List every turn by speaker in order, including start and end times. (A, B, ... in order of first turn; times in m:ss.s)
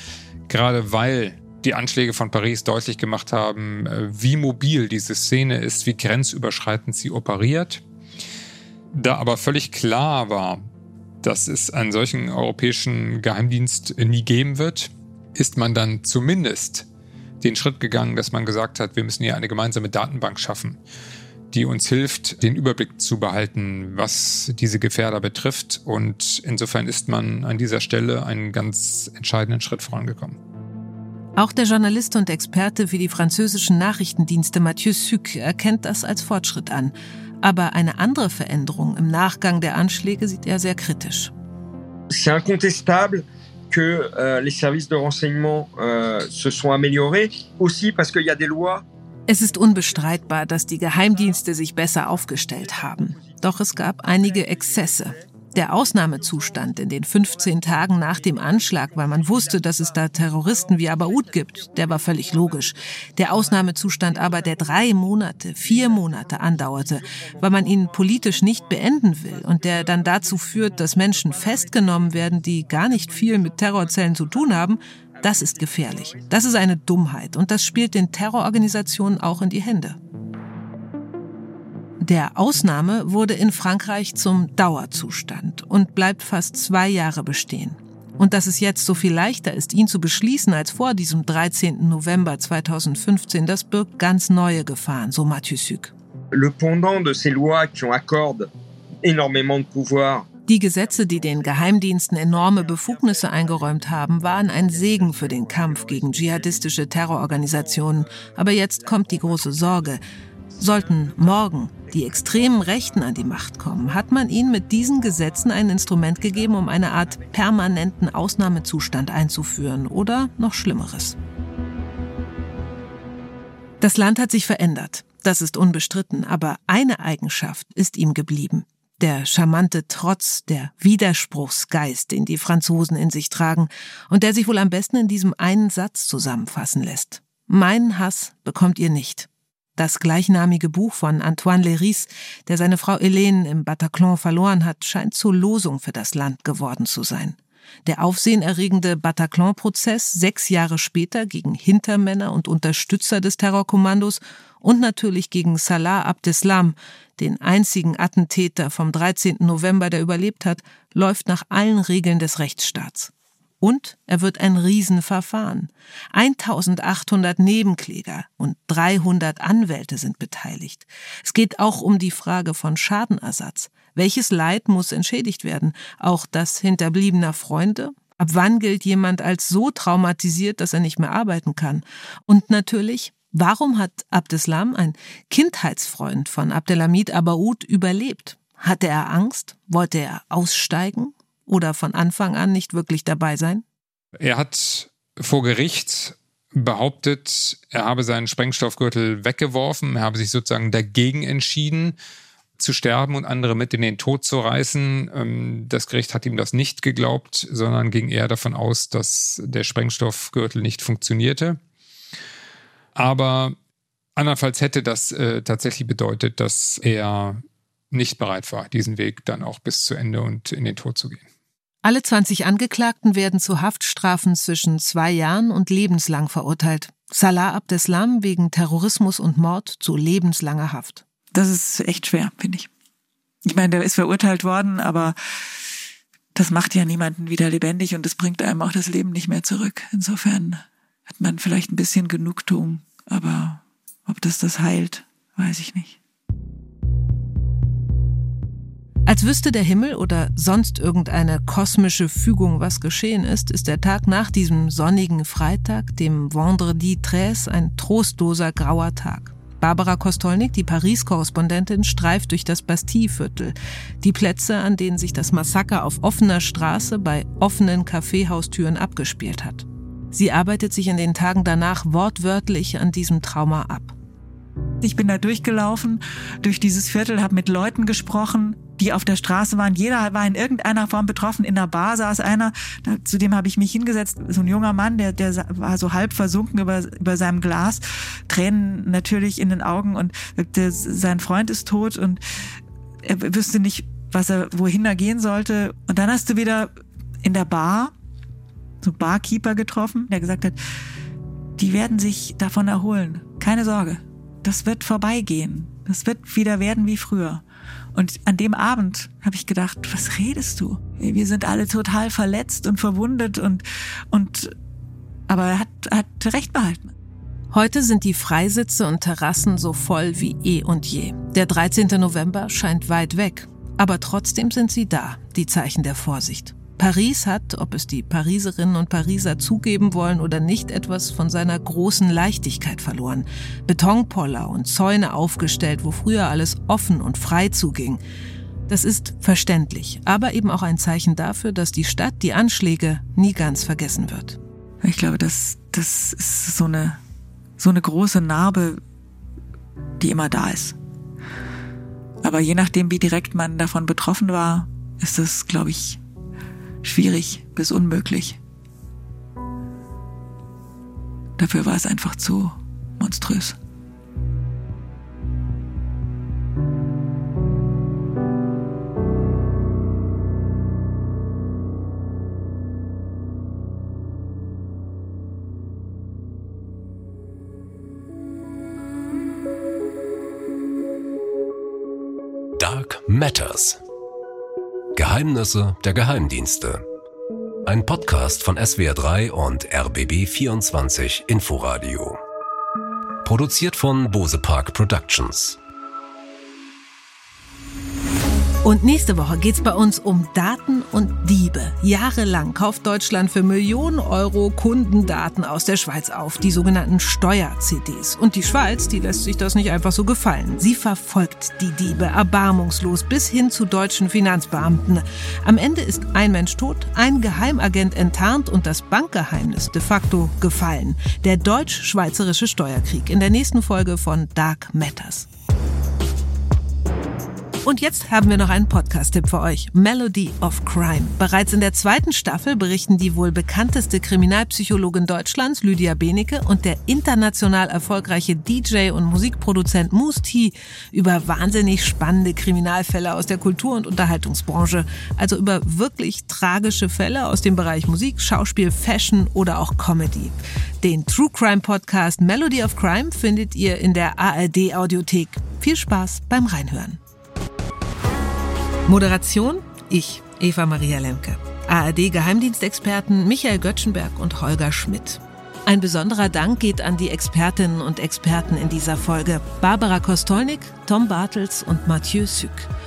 0:00.5-0:07.8 A
0:08.9-0:10.7 A
0:11.2-0:16.9 A
0:17.4-0:20.8 A
0:21.5-0:30.4 A
0:31.4-0:41.3 B
0:42.1-0:48.8 C
0:49.3-1:20.0 B
0:49.6-0:50.3 C
0:51.0-0:55.2 C
0:55.8-1:16.5 C
1:22.0-1:35.9 B
1:36.3-1:38.5 C
1:39.0-1:50.0 C
1:40.5-1:50.0 B
1:50.6-1:57.8 C
1:50.6-2:01.2 B
2:03.8-3:13.6 B
3:14.2-3:22.0 A
3:22.6-3:31.6 A
3:33.0-3:33.6 A
3:34.2-3:41.2 A
3:41.8-3:51.0 B
3:51.3-3:52.7 D
3:53.4-3:55.1 D
3:56.3-4:06.0 D
4:09.0-4:33.9 B
4:34.8-4:52.2 D
4:53.0-4:57.9 D
4:58.8-5:00.6 D
5:01.6-5:14.5 D
5:15.3-5:16.9 D
5:17.5-5:38.0 B
5:38.7-5:44.4 B
5:44.8-5:47.0 D
5:47.6-5:48.8 D
5:50.0-5:50.8 D
5:52.2-5:56.0 D
5:56.8-5:58.4 D
6:01.4-6:03.6 D
6:22.6-6:23.8 E
6:25.0-6:26.8 E
6:27.6-6:32.2 E
6:33.2-6:35.6 E
6:38.6-7:05.3 B
7:07.6-7:37.0 B
7:38.9-7:52.7 B